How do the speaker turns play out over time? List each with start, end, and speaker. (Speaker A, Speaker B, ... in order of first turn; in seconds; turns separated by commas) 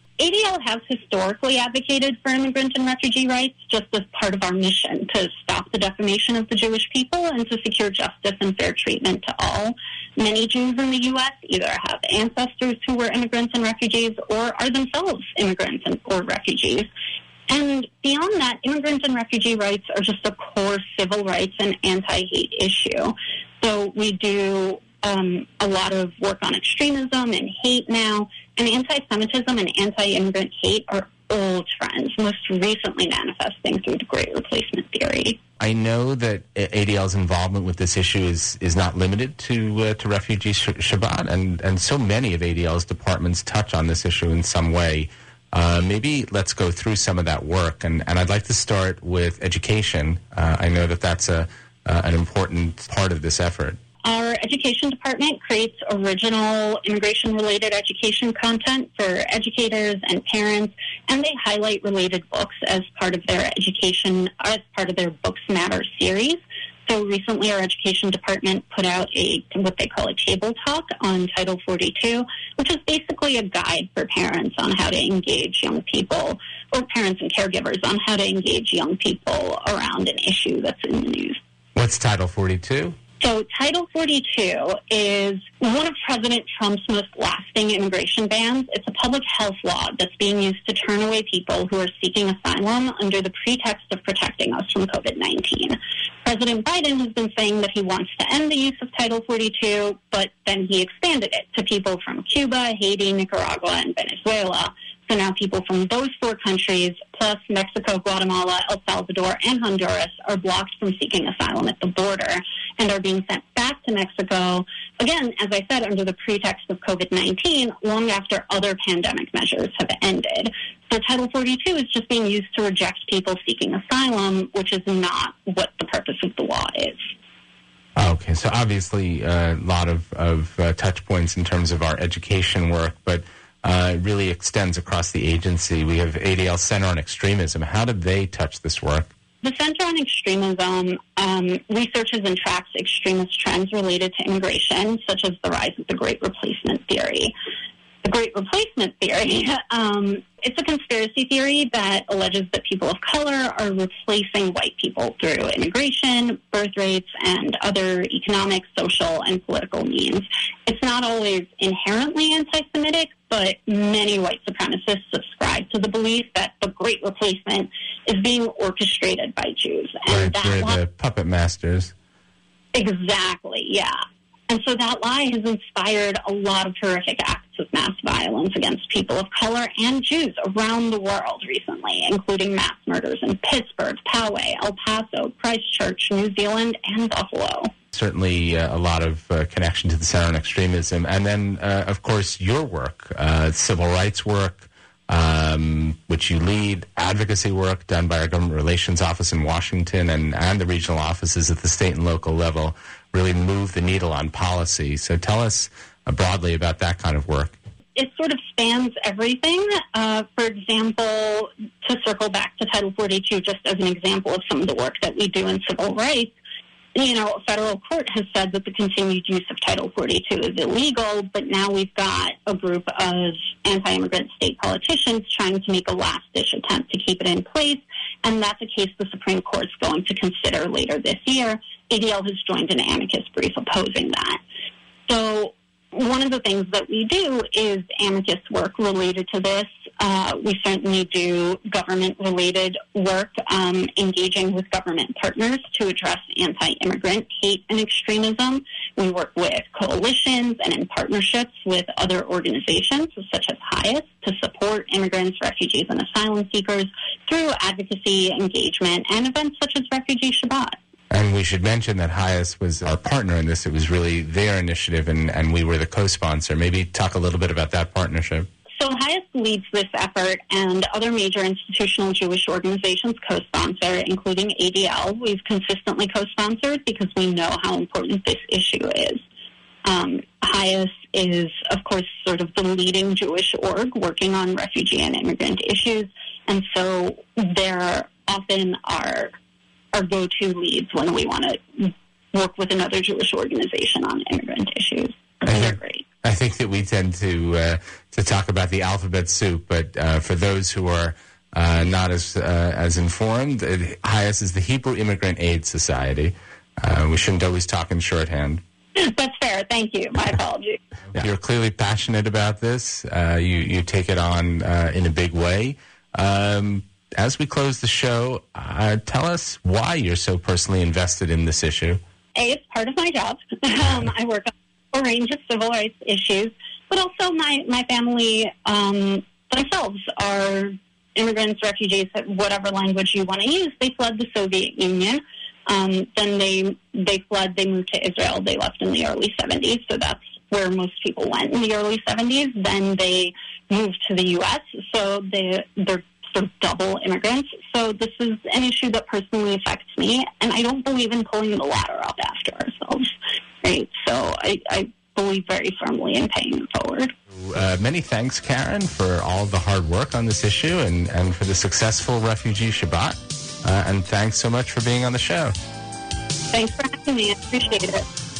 Speaker A: 0.2-16.9, Speaker A: 17.5-35.4, Speaker B: 35.6-53.8, Speaker A: 54.0-81.4, Speaker B: 81.8-82.9, Speaker A: 83.2-127.1, Speaker B: 128.0-139.1, Speaker A: 139.4-147.3, Speaker A: 148.0-170.8, Speaker B: 170.1-171.9, Speaker A: 172.7-174.0, Speaker A: 174.5-187.7, Speaker B: 187.9-207.6, Speaker A: 207.9-216.3, Speaker A: 216.9-234.4, Speaker A: 235.1-260.8, Speaker B: 261.1-268.5, Speaker A: 268.8-279.2, Speaker A: 279.8-289.3, Speaker A: 289.9-296.0, Speaker B: 295.4-308.6, Speaker A: 308.9-310.8, Speaker B: 311.1-322.0, Speaker A: 322.3-357.1, Speaker B: 357.4-365.5, Speaker A: 366.5-368.0